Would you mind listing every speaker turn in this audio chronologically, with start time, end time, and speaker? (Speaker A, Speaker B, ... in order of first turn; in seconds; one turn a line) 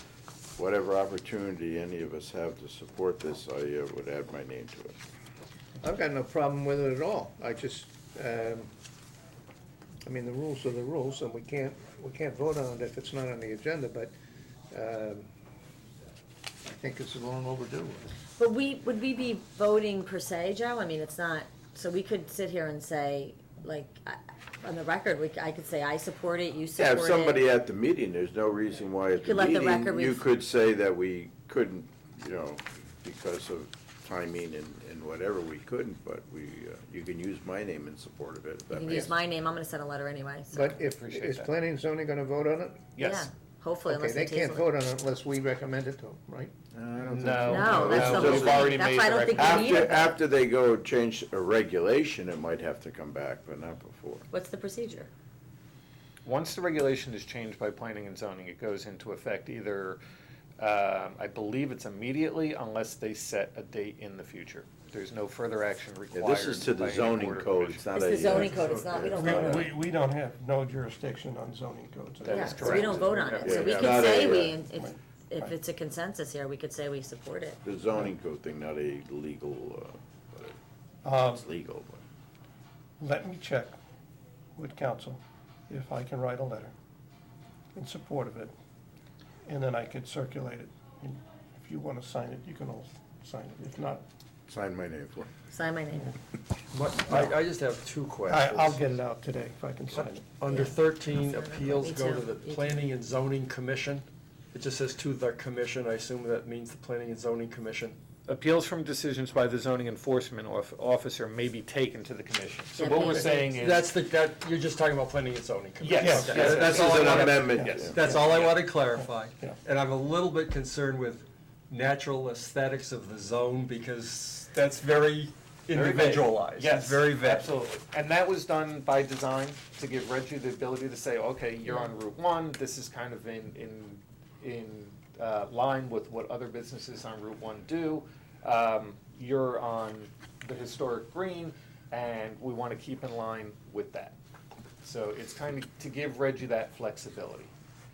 Speaker A: 0.6-5.0
Speaker B: 5.8-8.7
Speaker B: 10.0-14.1
Speaker B: 14.7-15.3
Speaker B: 16.6-18.1
Speaker C: 18.4-27.4
Speaker A: 26.8-39.1
Speaker C: 29.2-30.2
Speaker C: 38.7-40.7
Speaker B: 40.5-42.9
Speaker D: 40.7-41.5
Speaker D: 43.0-43.3
Speaker C: 43.0-44.7
Speaker B: 43.9-46.5
Speaker A: 46.7-54.3
Speaker D: 47.1-50.0
Speaker B: 47.5-48.1
Speaker C: 47.5-50.1
Speaker C: 54.3-55.1
Speaker D: 56.2-60.0
Speaker D: 60.6-69.1
Speaker A: 66.1-69.7
Speaker C: 67.9-69.7
Speaker E: 69.1-73.2
Speaker D: 72.2-74.3
Speaker C: 72.3-77.6
Speaker A: 72.7-74.6
Speaker A: 77.6-80.5
Speaker E: 81.0-81.4
Speaker A: 81.2-82.0
Speaker E: 83.0-83.8
Speaker E: 84.5-86.7
Speaker E: 87.8-88.5
Speaker E: 89.5-94.0
Speaker A: 94.5-95.3
Speaker C: 95.5-96.1
Speaker F: 96.7-98.9
Speaker E: 97.0-97.4
Speaker E: 98.3-100.3
Speaker F: 99.9-108.0
Speaker C: 100.5-102.8
Speaker D: 108.3-113.9
Speaker C: 112.8-113.5
Speaker F: 113.0-127.5
Speaker D: 115.8-118.7
Speaker E: 116.0-116.6
Speaker A: 116.3-118.0
Speaker E: 117.5-117.8
Speaker E: 118.9-119.6
Speaker D: 125.7-144.1
Speaker D: 144.8-147.5